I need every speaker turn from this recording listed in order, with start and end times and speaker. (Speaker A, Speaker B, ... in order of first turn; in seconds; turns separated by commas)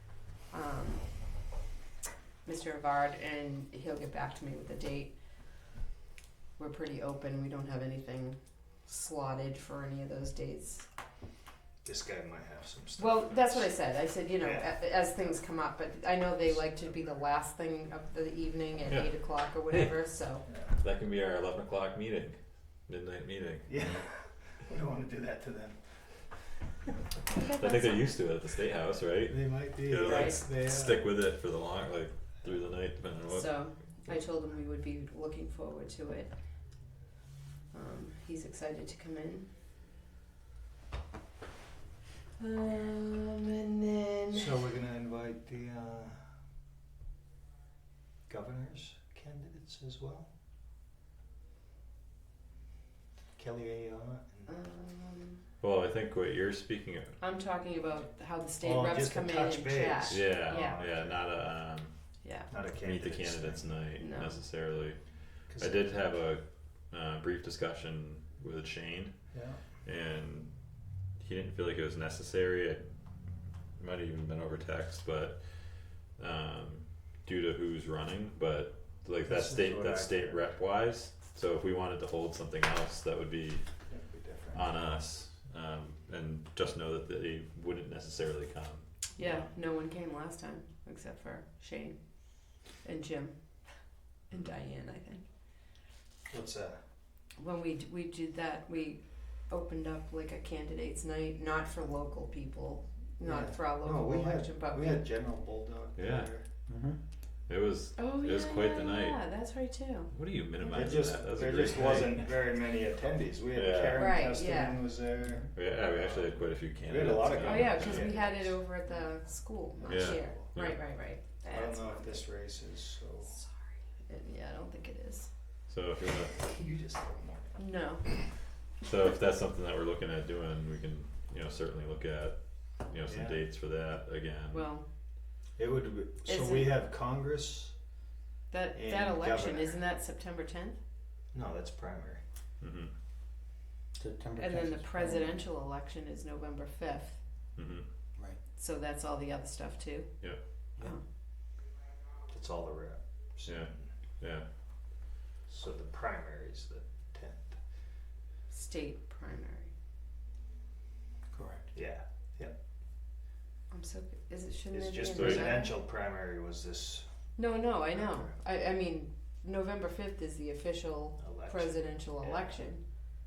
Speaker A: 0.5-1.1, Speaker A: 2.5-5.1, Speaker A: 6.6-10.9, Speaker B: 11.8-13.8, Speaker A: 13.0-20.4, Speaker B: 14.4-14.8, Speaker C: 18.9-19.2, Speaker B: 20.5-20.7, Speaker C: 20.8-23.9, Speaker B: 23.7-26.0, Speaker A: 27.3-28.1, Speaker C: 27.6-33.6, Speaker B: 29.3-31.1, Speaker A: 30.0-30.4, Speaker A: 33.3-36.3, Speaker A: 37.7-39.5, Speaker A: 42.4-44.6, Speaker B: 44.3-46.2, Speaker B: 48.3-50.3, Speaker B: 53.4-54.5, Speaker A: 54.5-55.4, Speaker C: 55.6-57.2, Speaker A: 57.2-60.8, Speaker B: 58.6-61.3, Speaker C: 60.1-61.9, Speaker A: 62.2-62.5, Speaker B: 62.5-63.7, Speaker C: 62.8-65.0, Speaker A: 64.0-64.4, Speaker B: 65.5-65.8, Speaker C: 65.5-69.2, Speaker B: 69.3-69.6, Speaker C: 69.8-70.5, Speaker C: 71.2-72.8, Speaker C: 73.8-75.4, Speaker C: 76.2-83.6, Speaker B: 79.2-80.5, Speaker B: 83.9-84.7, Speaker C: 84.5-89.5, Speaker A: 89.2-92.0, Speaker A: 92.8-93.4, Speaker A: 94.3-95.2, Speaker B: 96.3-96.8, Speaker A: 97.4-105.0, Speaker B: 103.2-106.5, Speaker C: 106.0-106.3, Speaker D: 106.7-107.0, Speaker C: 107.5-109.2, Speaker A: 108.0-110.1, Speaker C: 110.1-112.3, Speaker B: 110.7-115.5, Speaker C: 113.5-114.2, Speaker A: 114.0-114.9, Speaker C: 115.5-118.1, Speaker B: 116.8-118.6, Speaker A: 117.4-122.2, Speaker B: 119.8-120.5, Speaker C: 119.9-120.8, Speaker B: 121.5-123.4, Speaker A: 124.1-125.3, Speaker C: 125.7-126.4, Speaker B: 126.3-128.1, Speaker A: 127.6-128.1, Speaker C: 128.8-134.6, Speaker B: 133.1-133.4, Speaker A: 134.5-134.8, Speaker B: 135.6-137.8, Speaker A: 136.2-136.8, Speaker A: 138.5-140.8, Speaker B: 138.8-139.8, Speaker B: 141.3-142.2, Speaker C: 142.6-142.9, Speaker D: 144.0-145.4, Speaker A: 144.4-147.2, Speaker C: 147.6-147.9, Speaker A: 148.6-150.2, Speaker B: 152.3-153.8, Speaker C: 153.5-154.4, Speaker B: 155.5-157.6, Speaker A: 158.5-159.7, Speaker D: 161.3-161.7, Speaker B: 161.7-162.6, Speaker A: 163.7-165.7, Speaker B: 164.7-167.1, Speaker C: 165.2-165.6, Speaker A: 167.4-172.8, Speaker B: 168.0-168.3, Speaker B: 171.2-172.6